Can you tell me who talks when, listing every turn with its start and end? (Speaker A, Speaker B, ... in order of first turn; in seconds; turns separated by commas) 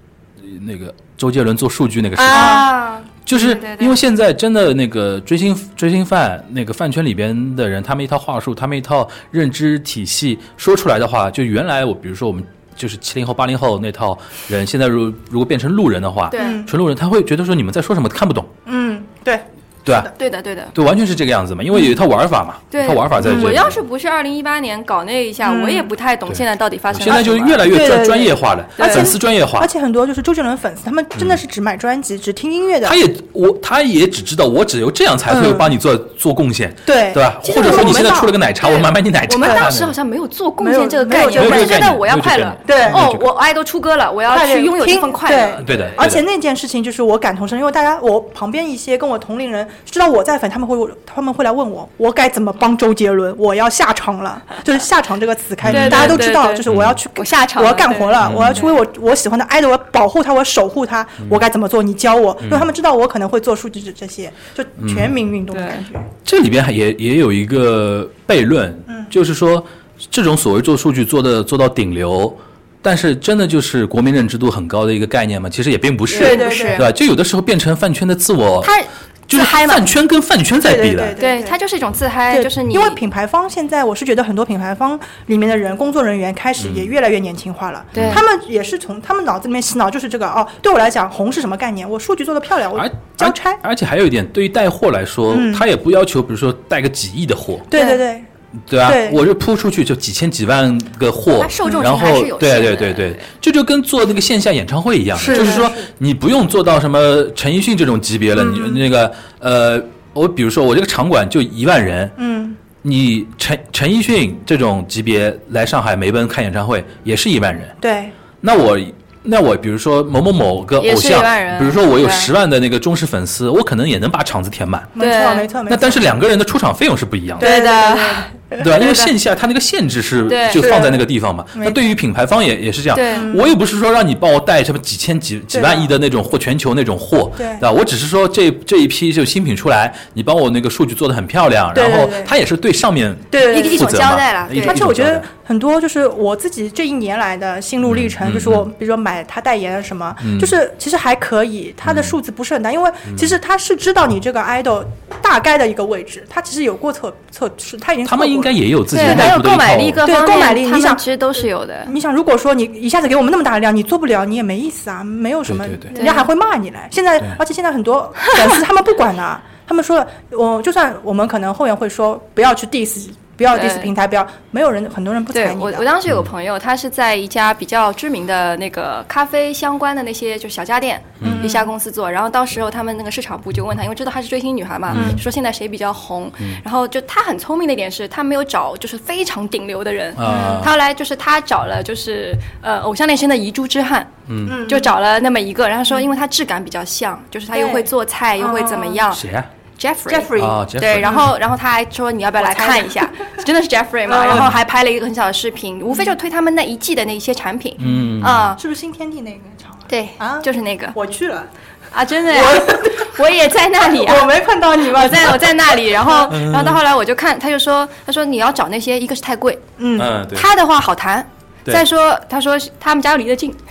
Speaker A: 0.4-2.7, Speaker B: 2.2-2.7, Speaker C: 2.2-3.9, Speaker A: 3.2-18.5, Speaker C: 16.3-16.6, Speaker B: 16.4-16.7, Speaker B: 18.6-20.1, Speaker A: 19.8-20.1, Speaker C: 20.1-20.7, Speaker A: 20.7-23.8, Speaker C: 22.7-27.7, Speaker B: 23.2-23.6, Speaker B: 25.4-25.9, Speaker A: 26.3-29.7, Speaker B: 27.1-33.0, Speaker C: 28.8-29.1, Speaker A: 32.8-39.9, Speaker B: 35.3-35.7, Speaker B: 36.9-38.4, Speaker C: 37.6-38.0, Speaker C: 38.6-46.0, Speaker B: 39.4-39.7, Speaker B: 40.6-41.9, Speaker A: 41.4-43.3, Speaker B: 42.6-43.0, Speaker B: 44.3-66.1, Speaker A: 45.6-46.2, Speaker A: 55.6-57.0, Speaker C: 55.7-58.7, Speaker A: 58.2-58.6, Speaker A: 62.4-62.7, Speaker A: 64.8-65.1, Speaker C: 65.5-65.9, Speaker A: 66.2-78.7, Speaker C: 76.1-76.9, Speaker B: 76.1-76.9, Speaker C: 78.6-79.9, Speaker A: 79.3-81.2, Speaker B: 80.6-81.6, Speaker C: 81.2-83.0, Speaker B: 82.3-93.6, Speaker A: 86.6-86.9, Speaker A: 87.9-88.2, Speaker A: 92.7-97.7, Speaker B: 95.3-95.7, Speaker B: 97.7-98.2, Speaker C: 97.7-98.0, Speaker A: 98.7-112.1, Speaker B: 98.8-99.2, Speaker C: 101.3-103.3, Speaker B: 105.2-105.9, Speaker C: 105.3-105.7, Speaker B: 108.3-108.9, Speaker B: 112.2-112.6, Speaker A: 112.8-117.7, Speaker B: 117.8-118.1, Speaker A: 118.4-124.9, Speaker C: 120.8-122.3, Speaker B: 124.9-126.1, Speaker C: 125.0-125.5, Speaker A: 125.7-127.5, Speaker B: 127.4-128.6, Speaker C: 127.4-129.1, Speaker A: 128.6-145.3, Speaker C: 130.3-130.7, Speaker B: 130.5-131.8, Speaker C: 132.9-133.3, Speaker B: 133.1-133.5, Speaker B: 135.5-135.9, Speaker B: 137.4-137.6, Speaker B: 141.7-142.3, Speaker B: 143.3-144.0, Speaker C: 143.4-144.8, Speaker B: 144.5-159.3, Speaker A: 147.8-148.7, Speaker A: 150.2-150.6, Speaker A: 151.8-152.2, Speaker A: 153.1-153.4, Speaker A: 158.0-160.0, Speaker C: 158.9-161.9, Speaker B: 160.0-161.0, Speaker B: 161.8-175.8, Speaker A: 165.4-165.9, Speaker C: 165.9-166.3, Speaker C: 173.5-173.9, Speaker C: 175.3-199.2, Speaker A: 181.2-181.5, Speaker B: 181.2-181.7, Speaker A: 184.9-185.2, Speaker B: 184.9-185.2, Speaker A: 190.2-190.7, Speaker B: 190.2-190.7, Speaker A: 194.3-194.6, Speaker B: 194.4-194.9, Speaker B: 197.5-199.0, Speaker A: 199.1-199.5, Speaker C: 199.8-208.6, Speaker B: 200.1-201.3, Speaker A: 200.3-201.2, Speaker B: 202.4-203.4, Speaker B: 204.1-204.5, Speaker A: 204.3-204.6, Speaker A: 207.8-208.5, Speaker B: 208.6-211.5, Speaker C: 209.9-210.9, Speaker C: 211.9-214.3, Speaker B: 212.2-213.2, Speaker B: 213.8-216.3, Speaker C: 214.8-219.6, Speaker A: 216.3-216.8, Speaker B: 219.8-220.1, Speaker A: 219.9-220.5, Speaker C: 220.3-223.6